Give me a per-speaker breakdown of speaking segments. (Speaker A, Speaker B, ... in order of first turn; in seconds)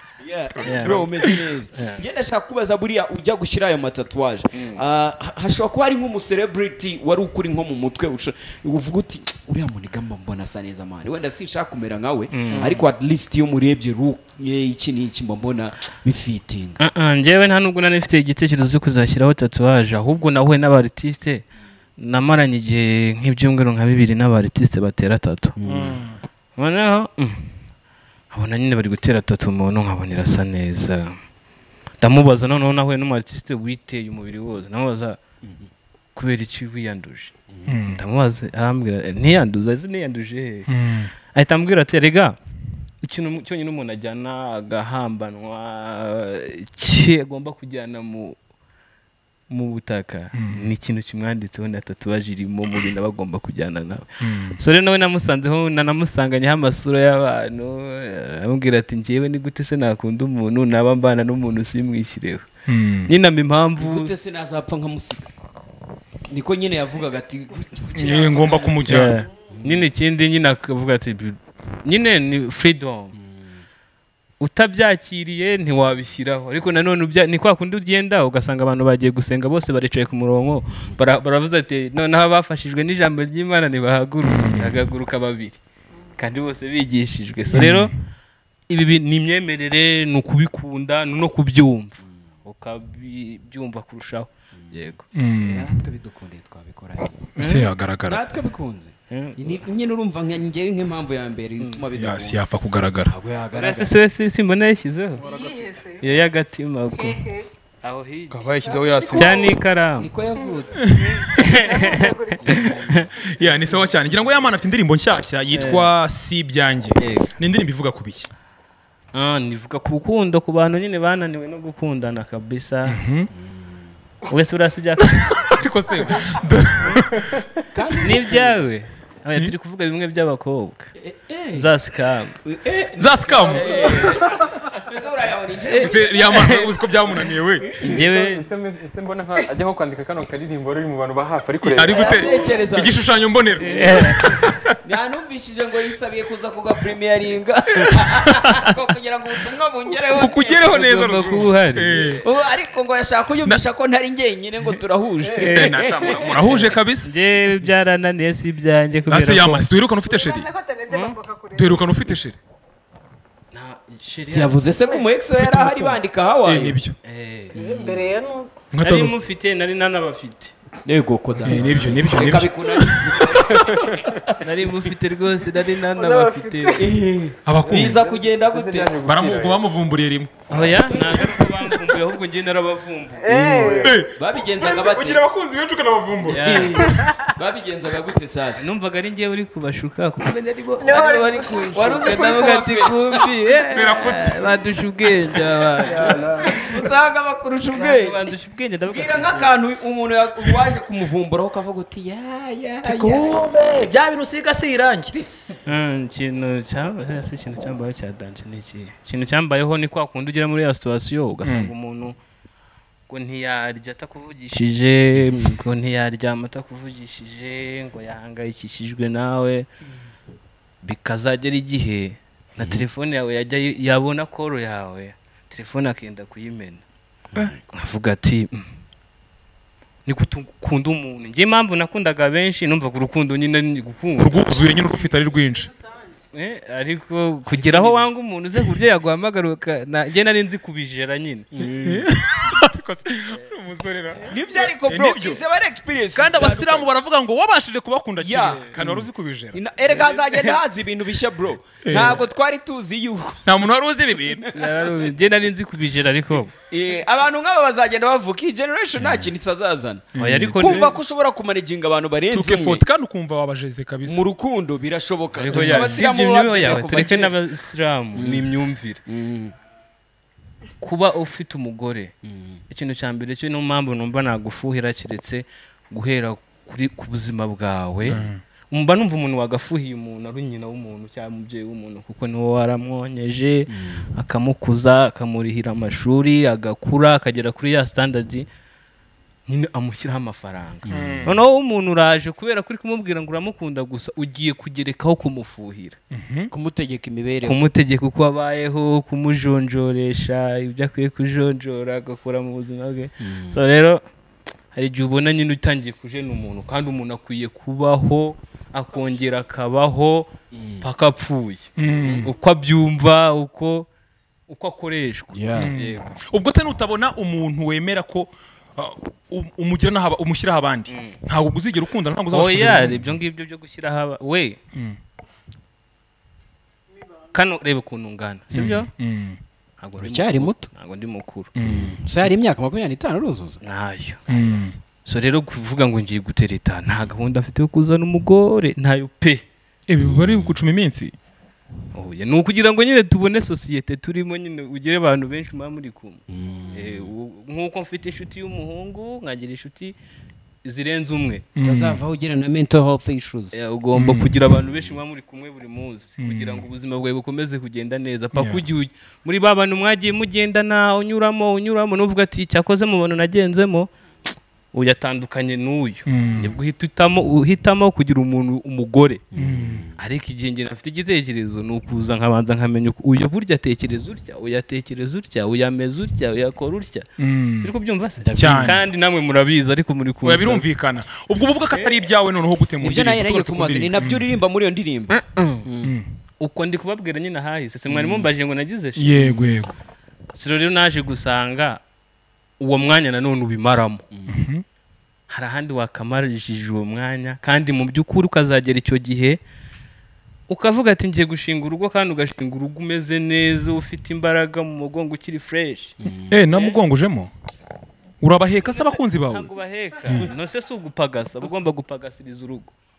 Speaker A: 0.2-16.8, 25.6-26.0, 63.8-65.3, 66.3-69.8, 95.4-97.3, 98.0-102.4, 103.0-103.9, 110.0-110.8, 123.4-123.7, 127.7-128.6, 131.0-131.7, 132.4-136.2, 141.9-143.0, 144.8-150.9, 152.0-155.8, 164.2-166.8, 167.6-168.0, 170.8-173.9, 176.7-178.9, 184.0-185.2, 186.4-188.6, 191.5-193.9, 196.3-198.2, 198.9-203.4, 222.6-222.8, 227.3-227.6, 241.5-242.1, 244.3-246.9, 248.2-253.6, 254.4-254.8, 256.7-262.8, 264.0-267.3, 268.1-268.5, 269.1-269.5, 272.2-272.6, 283.7-284.1, 290.9-291.2, 296.5-297.6, 303.2-303.6, 310.5-310.9, 315.3-315.7, 330.0-330.7, 331.6-333.6, 340.0-340.5, 346.3-347.1, 351.6-353.6, 369.3-369.9, 378.2-378.8, 382.8-385.9, 387.9-388.3, 389.2-389.6, 406.0-406.4
Speaker B: 0.6-1.4, 25.6-26.1, 37.6-38.0, 40.7-41.1, 50.4-50.6, 54.2-54.6, 62.7-63.1, 67.9-69.2, 84.2-84.8, 87.5-87.9, 95.1-95.7, 97.4-98.2, 102.0-103.1, 108.3-109.5, 110.8-111.2, 113.1-118.3, 122.8-123.3, 125.3-127.5, 133.0-134.1, 135.8-137.7, 141.6-144.7, 148.2-148.6, 150.1-152.2, 155.4-157.1, 159.1-160.5, 161.5-162.4, 165.3-166.9, 168.7-169.1, 171.4-173.6, 177.4-178.0, 179.0-181.3, 183.3-186.8, 193.7-194.6, 195.8-196.2, 202.8-205.1, 211.4-211.7, 234.2-235.7, 241.8-245.4, 246.1-249.6, 251.8-252.2, 253.4-254.5, 259.0-259.3, 260.2-260.8, 262.3-264.2, 265.5-266.0, 278.1-278.4, 290.9-291.3, 296.1-296.5, 311.8-312.3, 315.5-323.1, 328.5-329.4, 331.6-332.0, 334.3-334.7, 339.9-341.1, 351.6-352.0, 353.9-354.3, 356.2-356.6, 358.3-358.6, 366.1-366.5, 369.4-369.9, 377.2-377.7, 378.4-378.8, 380.2-384.2, 385.8-386.1, 389.0-389.7, 394.3-394.6, 406.3-407.3, 408.2-409.5
Speaker C: 0.6-1.0, 1.7-2.0, 4.5-4.8, 12.3-12.8, 16.8-21.4, 22.0-25.6, 26.6-27.6, 28.3-31.2, 32.0-35.2, 36.1-40.7, 41.3-42.4, 43.0-48.4, 49.5-62.5, 63.1-64.1, 68.9-73.2, 74.4-85.6, 86.2-87.9, 88.7-95.1, 97.3-97.7, 99.1-99.6, 103.5-105.2, 106.0-107.2, 107.8-108.5, 109.0-110.1, 111.0-113.1, 115.5-115.9, 117.0-117.3, 119.1-123.0, 124.2-125.4, 128.0-130.9, 131.5-132.4, 133.5-134.3, 135.6-136.7, 137.7-138.4, 143.6-144.5, 150.4-152.0, 155.2-159.7, 160.9-161.2, 163.5-164.6, 167.0-168.0, 168.8-170.5, 171.4-172.3, 174.4-176.8, 180.5-183.8, 186.2-186.9, 188.5-196.8, 197.7-199.5, 205.7-212.2, 213.1-219.7, 220.8-226.8, 227.7-228.7, 230.1-234.4, 236.3-242.0, 249.9-250.6, 254.5-256.5, 260.2-260.9, 265.4-269.0, 270.8-272.1, 272.7-288.4, 289.5-296.0, 297.4-304.0, 304.7-313.9, 314.5-316.1, 320.9-321.2, 322.3-324.6, 327.3-328.9, 329.8-331.5, 333.6-339.4, 341.9-349.9, 350.6-351.4, 353.5-363.9, 364.7-369.2, 370.0-377.1, 377.6-380.6, 385.1-385.6, 386.4-389.2, 390.3-391.8, 392.6-394.0, 395.3-399.4, 400.5-406.0, 406.5-406.8, 408.6-412.7
Speaker D: 105.2-106.0, 106.9-107.5, 108.6-109.5, 111.5-112.9, 142.0-142.6, 160.1-162.0, 167.6-168.5, 175.9-176.9, 183.2-184.0, 186.9-187.2, 190.8-191.8
Speaker E: 137.8-142.1, 173.5-174.2, 177.7-179.6, 183.6-183.8